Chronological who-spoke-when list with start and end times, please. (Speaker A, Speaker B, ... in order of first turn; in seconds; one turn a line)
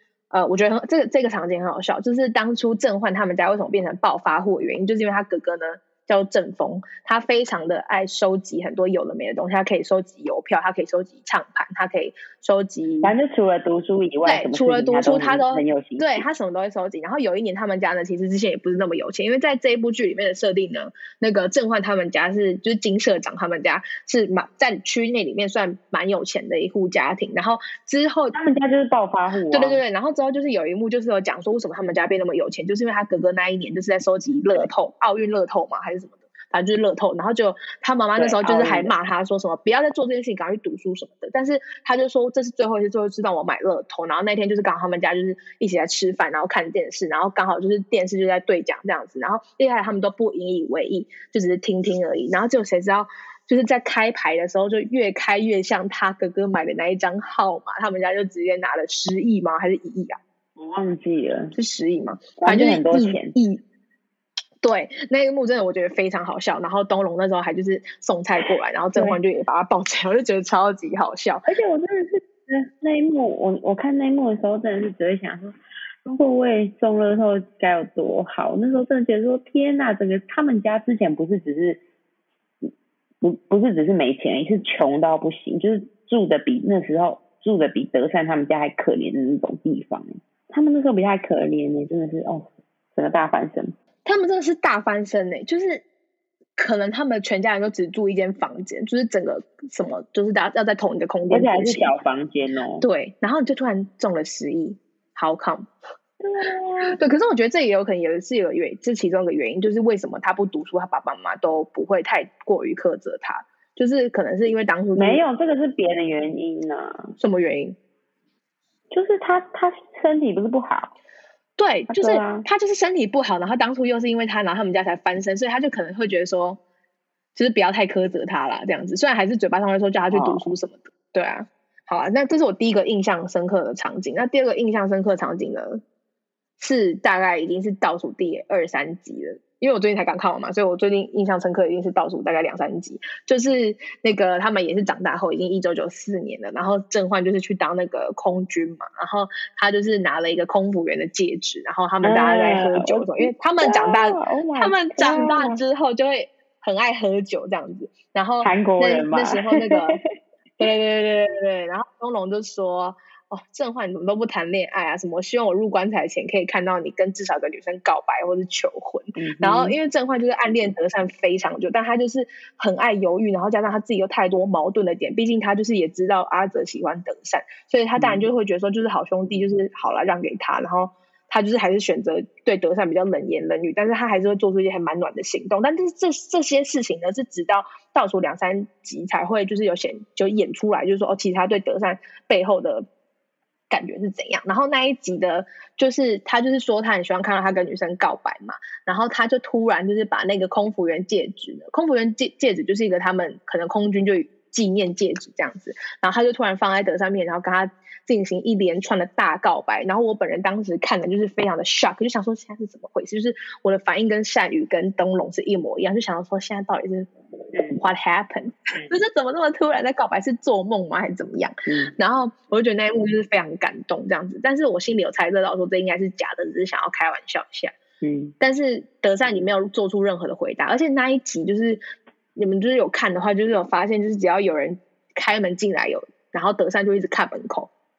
Speaker A: 0.3-13.1
Speaker B: 13.0-16.3
Speaker A: 14.2-28.4
Speaker B: 28.3-29.8
Speaker A: 29.5-60.2
Speaker B: 38.2-38.9
Speaker B: 60.6-61.5
Speaker A: 61.5-63.6
Speaker B: 62.4-63.4
Speaker A: 64.6-71.5
Speaker B: 71.5-81.8
Speaker B: 83.2-93.7
Speaker A: 94.0-95.8
Speaker A: 96.6-102.0
Speaker B: 101.3-102.9
Speaker A: 102.8-105.7
Speaker B: 106.2-107.0
Speaker A: 106.9-115.2
Speaker B: 115.0-117.1
Speaker A: 117.2-117.8
Speaker B: 118.9-120.9
Speaker A: 121.6-126.6
Speaker B: 121.9-122.5
Speaker A: 127.3-135.8
Speaker B: 130.1-130.5
Speaker A: 136.6-160.0
Speaker B: 152.0-155.6
Speaker B: 158.4-160.0
Speaker A: 160.6-192.9
Speaker B: 169.2-169.8
Speaker B: 178.0-178.3
Speaker A: 193.7-217.1
Speaker B: 217.5-217.8
Speaker A: 217.7-227.8
Speaker B: 221.7-221.9
Speaker B: 228.0-228.3
Speaker A: 228.4-231.8
Speaker A: 232.4-237.7